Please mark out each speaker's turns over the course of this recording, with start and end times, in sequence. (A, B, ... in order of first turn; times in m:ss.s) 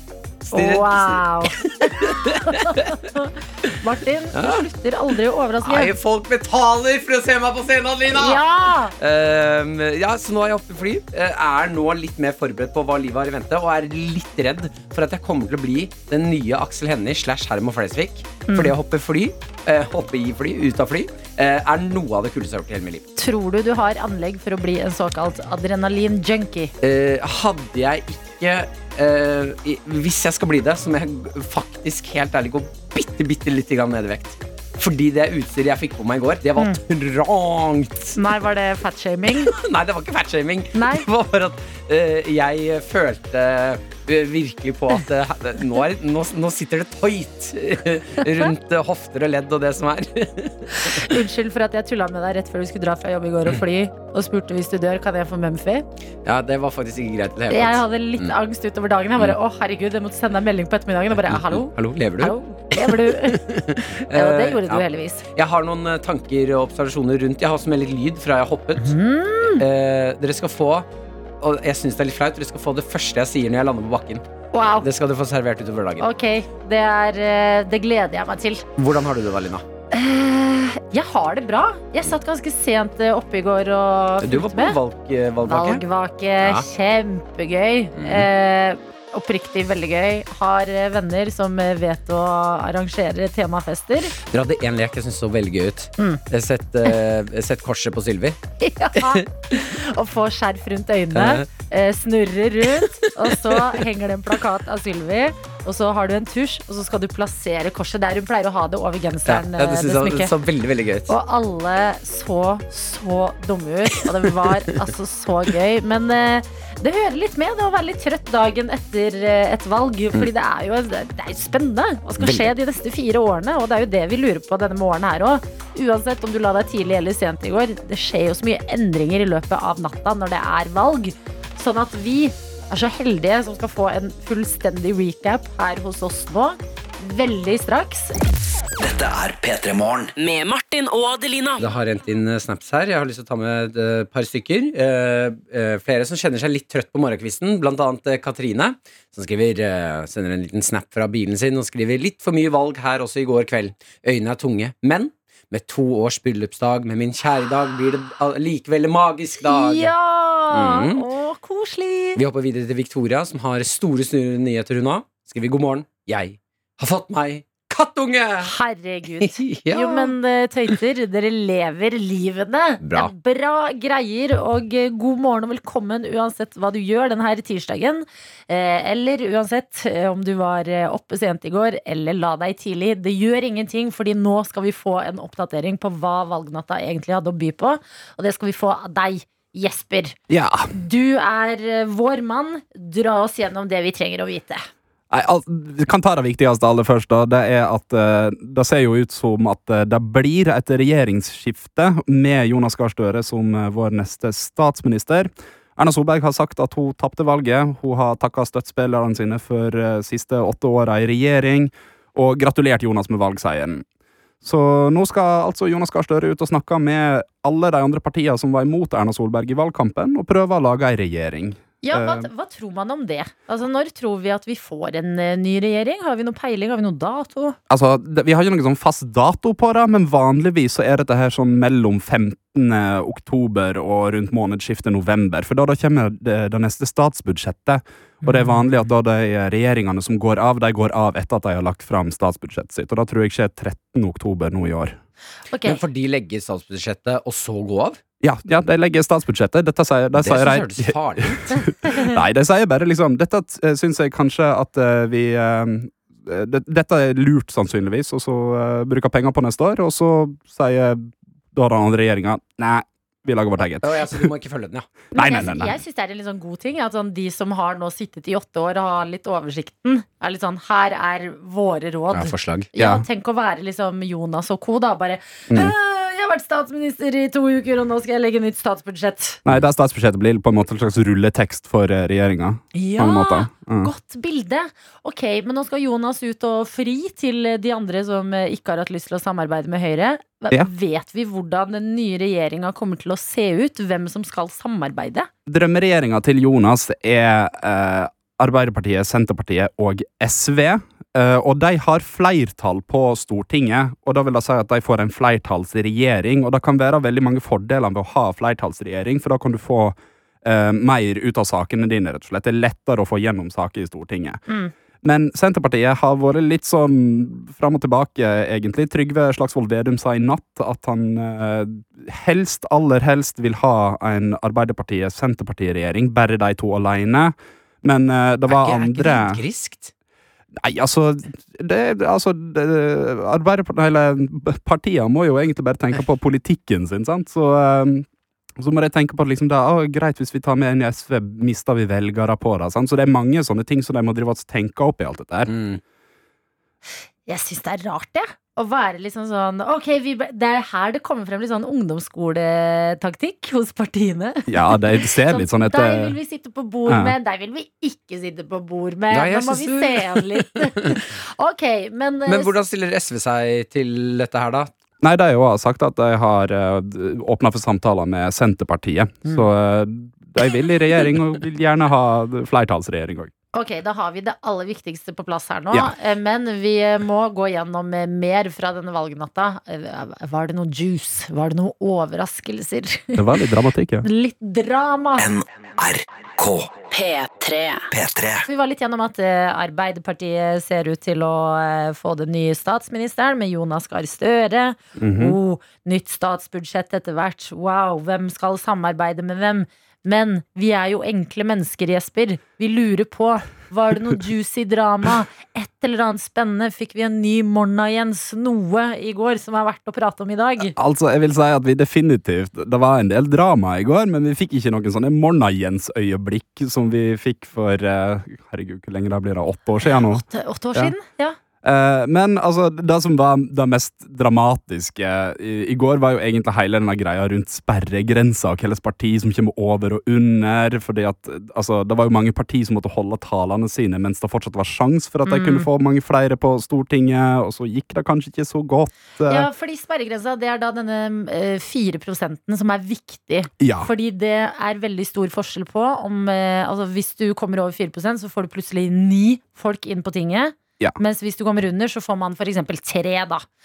0:00.4-0:03.0 A
0:00.5-0:05.9 B
0:04.3-0:04.6 A
0:05.6-0:08.4 A
0:08.1-0:08.9 B
0:09.0-0:23.0 A
0:18.5-0:18.7 B
0:23.2-0:26.7 B
0:26.8-0:38.2 A
0:38.2-0:39.5 B
0:39.5-0:51.1 A
0:40.7-0:41.0 B
0:50.7-0:55.8 B
0:56.2-0:58.3 A
0:57.5-1:03.4 B
1:01.1-1:08.9 A
1:04.1-1:05.2 B
1:08.8-1:09.6 B
1:09.6-1:10.8 A
1:11.4-1:14.2 A
1:14.5-1:14.9 B
1:14.8-1:16.0 A
1:16.0-1:18.6 B
1:18.8-1:19.6 A
1:19.9-1:24.8 B
1:24.2-1:25.8 A
1:25.4-1:34.1 B
1:26.4-1:26.6 A
1:28.0-1:28.3 A
1:34.2-1:38.4 A
1:38.6-1:50.3 B
1:39.0-1:39.2 A
1:41.1-1:41.5 A
1:49.3-1:51.1 A
1:51.1-2:18.1 B
1:54.4-1:54.8 A
2:02.2-2:02.5 A
2:18.8-2:20.1 C
2:20.2-2:21.6 D
2:21.6-2:39.9 A
2:39.4-2:42.2 B
2:40.5-2:41.0 A
2:42.2-2:48.5 A
2:48.4-3:10.2 B
2:49.2-2:50.1 A
2:52.8-2:53.1 A
3:10.3-3:10.7 E
3:10.7-3:14.6 B
3:15.1-3:33.8 E
3:34.4-3:42.3 E
3:41.8-3:47.6 B
3:47.7-4:04.9 E
4:05.5-4:05.8 B
4:05.6-4:08.0 A
4:08.2-4:24.3 E
4:10.2-4:11.5 A
4:23.8-4:24.9 A
4:25.1-4:39.4 B
4:25.2-4:25.8 E
4:32.1-4:32.7 A
4:32.8-4:33.0 E
4:39.4-4:43.9 E
4:42.7-4:55.3 B
4:55.5-5:14.4 E
5:15.0-5:29.4 E
5:28.5-5:29.9 A
5:30.6-5:45.5 E
5:45.5-5:45.8 A
5:47.3-6:02.5 B
5:54.5-5:56.2 E
5:56.9-5:57.1 E
5:59.1-6:01.0 A
6:02.3-6:04.7 A
6:05.0-6:13.3 E
6:13.5-6:23.2 B
6:23.2-6:24.1 E
6:24.0-6:25.3 B
6:25.2-6:26.8 C
6:26.9-6:27.9 D
6:27.9-6:28.4 C
6:28.4-6:50.7 B
6:35.0-6:35.4 E
6:50.8-7:00.9 E
6:59.8-7:01.4 B
7:01.6-7:19.5 E
7:15.2-7:15.7 B
7:19.3-7:33.4 B
7:23.6-7:23.9 E